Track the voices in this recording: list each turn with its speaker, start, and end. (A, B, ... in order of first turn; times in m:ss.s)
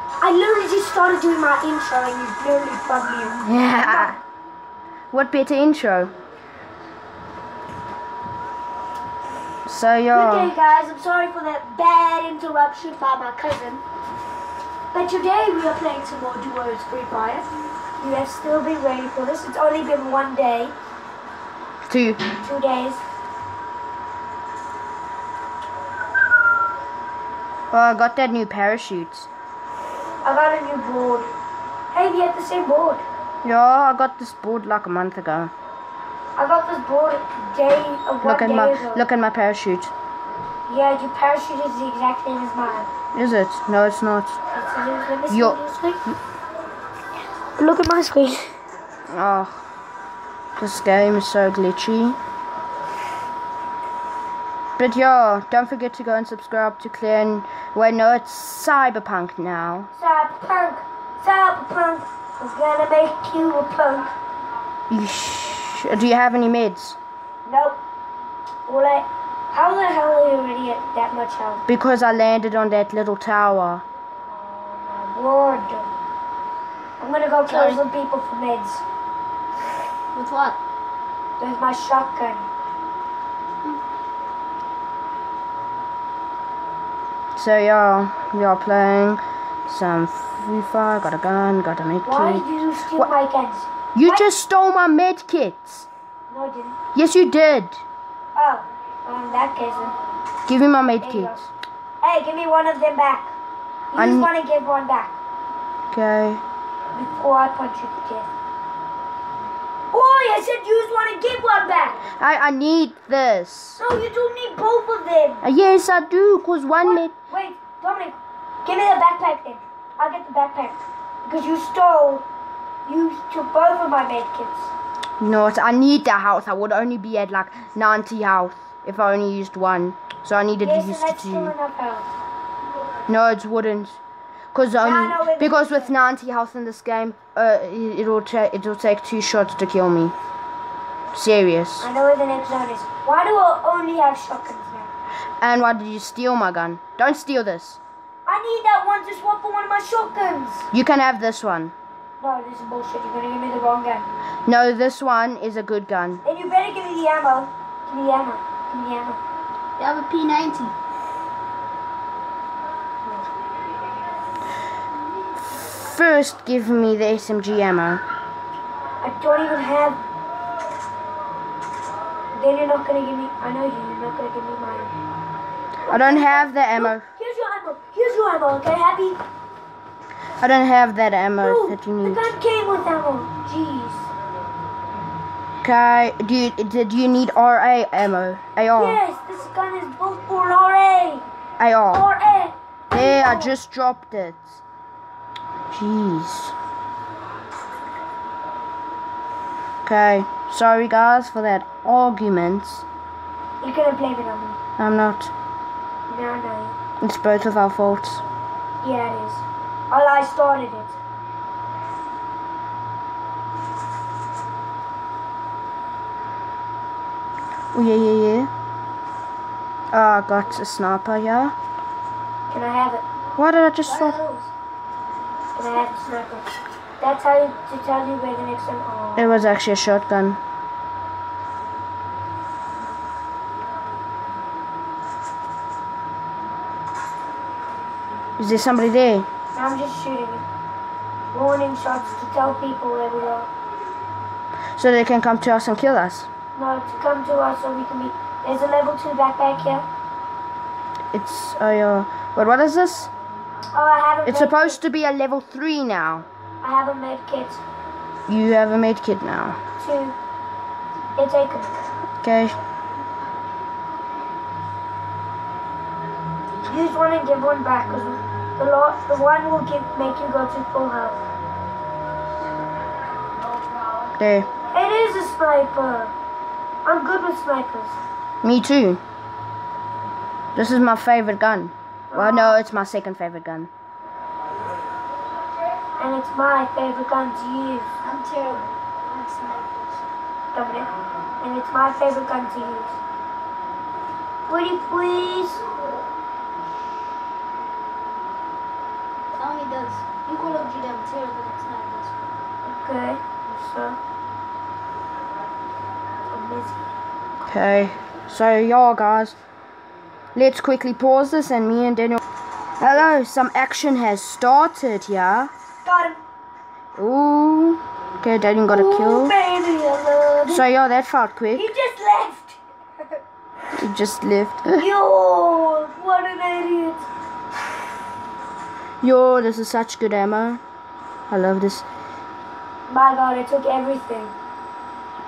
0:00.2-0:04.2 A
0:03.4-0:04.2 B
0:05.1-0:06.1 B
0:09.6-0:10.5 B
0:10.1-0:13.8 A
0:14.9-0:20.7 A
0:21.8-0:22.2 B
0:22.4-0:23.0 A
0:27.7-0:29.3 B
0:30.2-0:31.3 A
0:31.9-0:33.0 A
0:33.4-0:35.5 B
0:36.4-0:39.0 A
0:38.2-0:39.9 B
0:40.7-0:42.9 A
0:43.1-0:44.4 B
0:44.5-0:46.0 A
0:45.3-0:45.6 B
0:47.6-0:48.5 A
0:49.1-0:49.6 B
0:50.6-0:52.2 B
0:54.8-0:59.9 B
0:59.9-1:04.1 A
1:04.9-1:07.0 B
1:07.4-1:07.8 A
1:08.7-1:11.6 A
1:11.7-1:13.8 B
1:14.3-1:15.9 A
1:17.0-1:18.8 A
1:17.5-1:17.8 C
1:20.1-1:20.6 C
1:21.4-1:22.5 A
1:27.3-1:33.1 B
1:32.0-1:34.3 A
1:33.9-1:35.9 B
1:36.3-1:36.8 A
1:36.9-1:37.8 B
1:38.3-1:39.9 A
1:40.5-1:41.4 B
1:41.0-1:41.5 A
1:42.0-1:43.3 A
1:43.9-1:45.2 A
1:43.9-1:44.3 B
1:45.9-1:46.4 B
1:46.9-1:48.3 A
1:49.9-1:52.0 A
1:52.2-1:53.8 B
1:53.8-1:55.4 A
1:55.4-1:57.1 B
1:56.8-2:02.2 A
2:02.8-2:04.7 A
2:05.2-2:11.5 B
2:10.6-2:12.1 A
2:13.1-2:14.0 B
2:14.5-2:20.1 B
2:14.8-2:15.9 A
2:21.1-2:21.9 B
2:21.8-2:24.9 A
2:25.4-2:27.8 B
2:28.2-2:30.7 A
2:30.7-2:31.7 B
2:32.2-2:34.1 A
2:34.4-2:36.2 B
2:36.2-2:39.2 A
2:39.8-2:40.7 C
2:45.4-2:48.0 B
2:49.0-2:50.0 A
2:52.3-2:54.9 A
2:55.9-2:59.2 A
2:55.9-2:57.0 B
3:00.4-3:02.3 B
3:01.4-3:04.1 A
3:05.6-3:09.0 B
3:08.6-3:11.2 A
3:11.6-3:12.1 B
3:11.9-3:13.6 A
3:12.9-3:14.6 B
3:15.7-3:16.5 B
3:19.8-3:22.8 B
3:23.6-3:24.6 A
3:24.8-3:25.3 B
3:26.1-3:26.8 A
3:27.0-3:28.2 B
3:28.8-3:31.0 A
3:37.7-3:38.5 B
3:39.9-3:41.5 B
3:42.5-3:43.0 A
3:43.4-3:44.2 B
3:43.8-3:44.5 A
3:45.5-3:49.4 A
3:49.2-3:50.4 B
3:58.4-3:59.3 B
3:59.5-4:00.4 A
4:01.3-4:03.5 A
4:04.8-4:06.3 B
4:06.5-4:09.8 A
4:11.1-4:13.1 B
4:13.7-4:14.8 A
4:14.2-4:16.3 B
4:16.6-4:17.6 A
4:18.3-4:19.6 B
4:19.8-4:20.1 A
4:21.2-4:21.7 A
4:22.2-4:22.6 B
4:26.6-4:31.2 A
4:34.2-4:34.5 B
4:34.7-4:36.1 A
4:36.8-4:38.0 A
4:38.4-4:39.0 B
4:40.5-4:43.7 B
4:42.1-4:42.6 A
4:46.0-4:48.0 A
4:48.0-4:50.0 C
4:50.5-4:53.0 A
4:54.5-4:55.6 A
4:59.3-5:02.2 C
5:02.6-5:04.0 A
5:06.3-5:06.9 A
5:07.4-5:09.3 B
5:10.3-5:12.2 B
5:12.8-5:15.5 B
5:15.8-5:16.2 A
5:17.0-5:19.3 B
5:18.7-5:20.6 A
5:20.5-5:21.7 B
5:21.5-5:22.6 A
5:23.7-5:24.8 B
5:24.8-5:27.1 A
5:29.0-5:30.6 B
5:31.3-5:31.8 B
5:32.9-5:34.3 A